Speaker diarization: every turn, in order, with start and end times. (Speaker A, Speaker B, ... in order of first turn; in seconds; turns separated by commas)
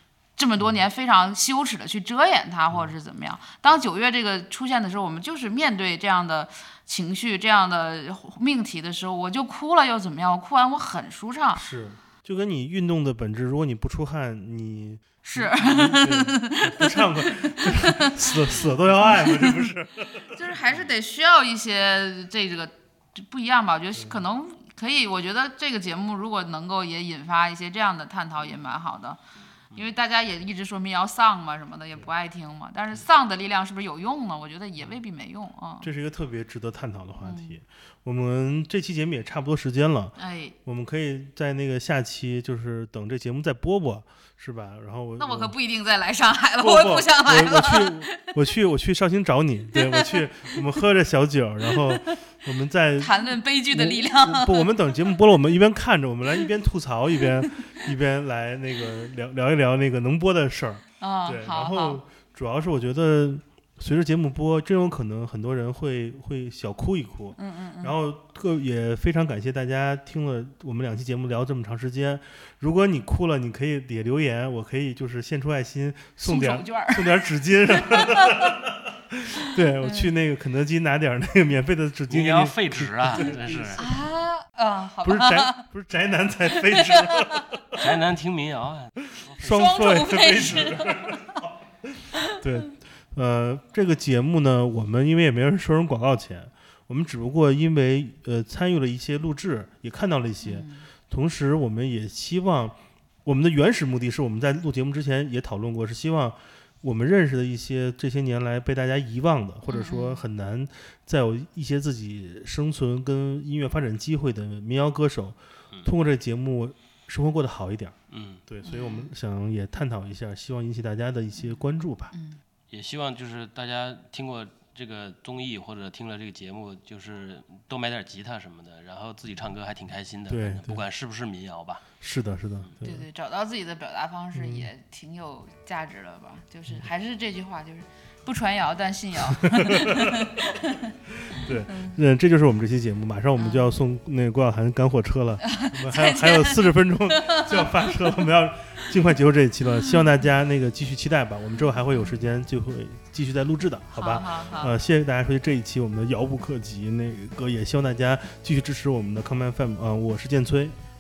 Speaker A: 0.4-11.6, Speaker B: 11.5-20.5, Speaker A: 15.2-18.1, Speaker A: 19.0-19.5, Speaker A: 20.2-29.2, Speaker A: 29.7-35.9, Speaker B: 35.8-45.5, Speaker A: 37.2-37.6, Speaker A: 40.2-40.6, Speaker A: 45.2-48.3, Speaker B: 46.6-83.9, Speaker A: 49.7-50.6, Speaker A: 51.7-52.1, Speaker A: 53.0-54.7, Speaker A: 61.0-62.0, Speaker A: 67.4-68.0, Speaker A: 76.2-78.6, Speaker A: 79.8-80.1, Speaker C: 82.1-83.8, Speaker A: 83.8-85.6, Speaker B: 85.0-87.9, Speaker A: 86.6-87.5, Speaker C: 87.8-89.6, Speaker B: 89.3-118.0, Speaker A: 89.4-91.2, Speaker A: 100.4-100.9, Speaker A: 109.7-110.2, Speaker C: 118.1-118.4, Speaker B: 118.5-122.1, Speaker A: 118.6-119.1, Speaker A: 122.1-122.4, Speaker C: 122.7-131.8, Speaker B: 130.3-130.8, Speaker B: 132.0-133.1, Speaker A: 132.8-140.8, Speaker B: 134.3-134.7, Speaker B: 139.4-140.3, Speaker B: 141.3-160.8, Speaker A: 141.4-142.0, Speaker A: 143.4-143.7, Speaker A: 145.5-146.6, Speaker A: 147.2-147.6, Speaker A: 153.9-154.8